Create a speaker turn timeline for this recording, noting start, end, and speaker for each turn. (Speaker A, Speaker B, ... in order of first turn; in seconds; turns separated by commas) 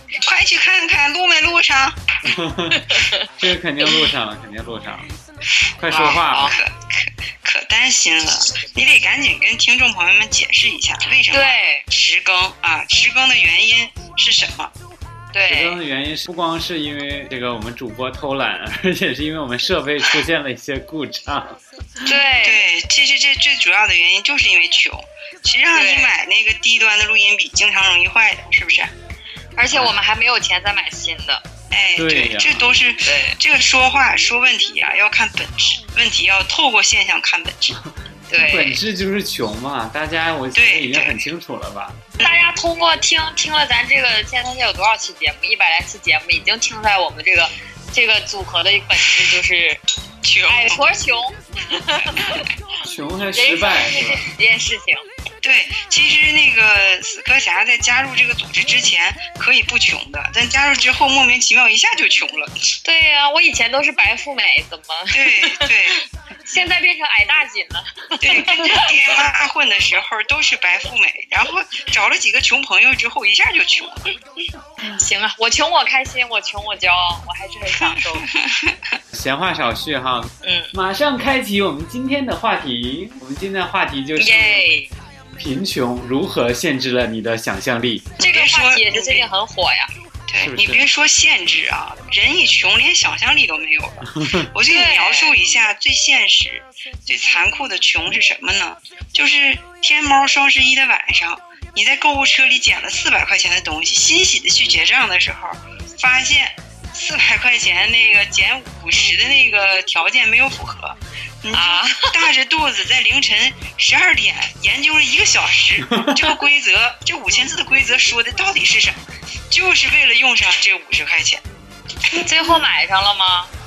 Speaker A: 0.2-2.0, Speaker B: 2.2-5.1, Speaker C: 2.7-3.3, Speaker B: 5.8-6.5, Speaker C: 5.9-6.6, Speaker A: 5.9-14.7, Speaker C: 11.3-11.8, Speaker C: 15.3-15.8, Speaker B: 15.4-21.6, Speaker C: 22.0-22.6, Speaker A: 22.4-28.9, Speaker C: 25.7-26.1, Speaker C: 29.6-31.4, Speaker A: 31.7-37.8, Speaker B: 31.9-32.6, Speaker C: 33.0-33.4, Speaker C: 38.3-38.8, Speaker B: 38.4-42.0, Speaker A: 40.5-41.1, Speaker A: 42.2-42.5, Speaker C: 42.2-49.8, Speaker A: 50.2-50.8, Speaker C: 50.5-52.5, Speaker B: 52.8-54.2, Speaker C: 53.3-55.0, Speaker A: 55.4-62.5, Speaker C: 62.8-68.9, Speaker A: 65.1-66.0, Speaker A: 68.2-74.1, Speaker C: 74.9-78.3, Speaker A: 77.8-78.8, Speaker B: 79.1-84.7, Speaker C: 80.4-80.7, Speaker C: 84.2-84.9, Speaker B: 85.3-88.1, Speaker A: 88.2-89.2, Speaker C: 88.2-89.9, Speaker A: 90.3-121.4, Speaker B: 90.4-90.8, Speaker B: 94.1-94.5, Speaker C: 94.7-95.3, Speaker C: 111.5-112.2, Speaker B: 115.9-116.2, Speaker C: 122.1-123.5